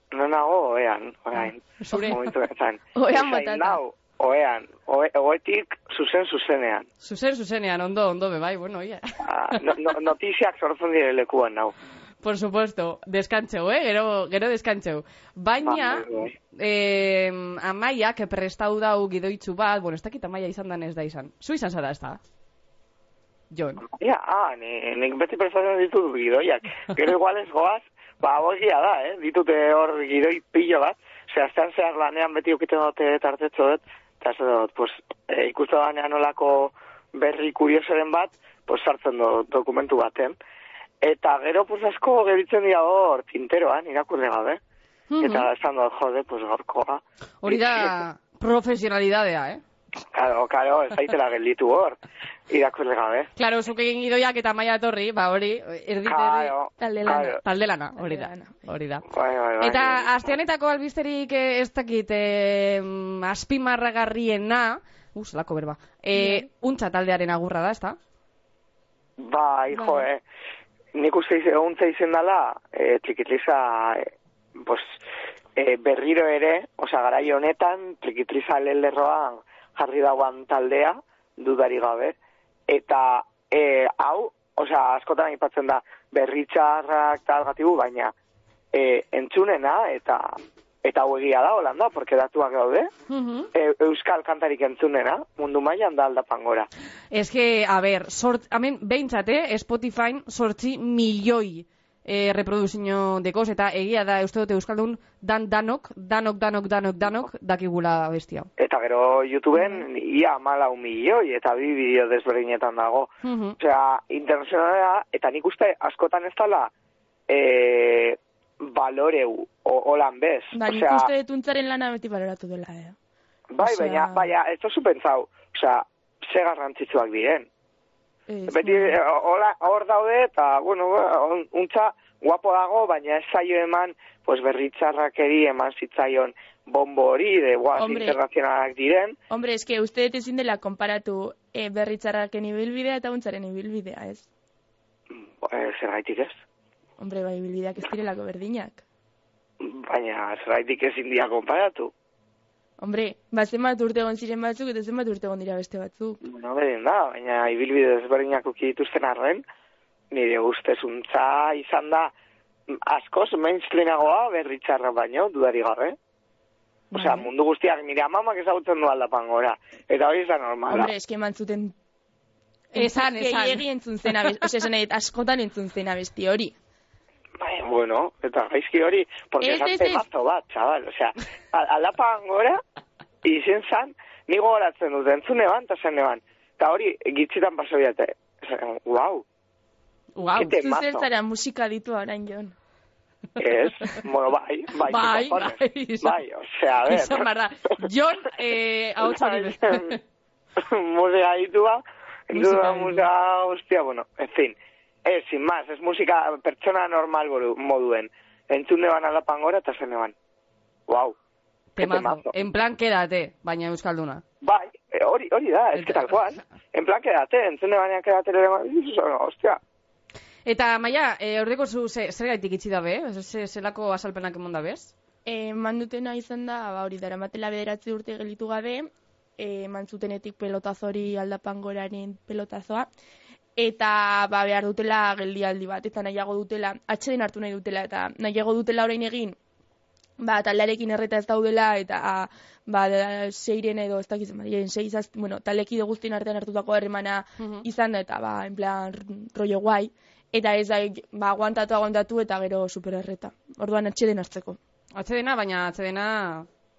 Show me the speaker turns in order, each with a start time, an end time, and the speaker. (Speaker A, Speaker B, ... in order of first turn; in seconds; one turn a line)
Speaker A: 0.1-6.9
Speaker B: 1.8-2.3
Speaker C: 2.9-3.8
Speaker B: 7.0-9.6
Speaker A: 9.2-11.7
Speaker B: 12.2-22.2
Speaker A: 15.6-16.3
Speaker B: 23.5-23.8
Speaker A: 23.9-40.4
Speaker A: 41.0-44.6
Speaker B: 45.1-45.5
Speaker A: 45.2-47.9
Speaker B: 47.4-49.6
Speaker A: 50.1-52.0
Speaker A: 52.5-53.3
Speaker B: 53.4-56.5
Speaker A: 56.0-57.4
Speaker C: 56.8-57.4
Speaker B: 57.1-59.1
Speaker C: 58.0-58.5
Speaker A: 59.1-60.4
Speaker B: 59.6-68.0
Speaker C: 66.1-66.5
Speaker A: 69.2-70.2
Speaker C: 69.7-70.0
Speaker A: 70.9-75.0
Speaker A: 75.5-82.2
Speaker A: 82.7-88.1
Speaker A: 88.7-92.9
Speaker B: 93.1-93.5
Speaker A: 93.5-96.7
Speaker B: 97.1-108.5
Speaker A: 108.6-116.7
Speaker C: 109.6-109.8
Speaker B: 113.2-113.6
Speaker A: 117.3-121.1
Speaker C: 120.5-123.0
Speaker A: 123.5-127.5
Speaker C: 123.6-124.3
Speaker C: 128.3-129.0
Speaker A: 128.5-139.2
Speaker C: 137.8-138.2
Speaker C: 139.3-144.3
Speaker A: 145.1-146.4
Speaker C: 147.0-148.8
Speaker A: 149.6-151.9
Speaker C: 152.8-156.2
Speaker A: 156.2-159.4
Speaker A: 160.1-162.1
Speaker A: 162.7-166.0
Speaker C: 166.9-167.3
Speaker A: 166.9-170.9
Speaker C: 170.7-171.7
Speaker B: 172.7-173.6
Speaker C: 172.7-176.6
Speaker A: 177.4-182.6
Speaker C: 179.4-180.0
Speaker A: 183.2-189.2
Speaker B: 190.2-190.5
Speaker A: 190.3-191.1
Speaker C: 190.5-192.5
Speaker A: 193.4-197.2
Speaker B: 194.8-196.2
Speaker B: 196.8-200.0
Speaker A: 199.0-200.0
Speaker A: 200.6-210.1
Speaker B: 202.3-203.1
Speaker A: 210.9-211.2
Speaker B: 211.8-214.2
Speaker A: 211.8-212.3
Speaker A: 214.4-219.6
Speaker B: 215.8-216.4
Speaker B: 220.4-224.9
Speaker C: 225.2-232.9
Speaker C: 233.6-239.4
Speaker C: 240.2-254.6
Speaker B: 247.4-247.6
Speaker B: 254.9-256.5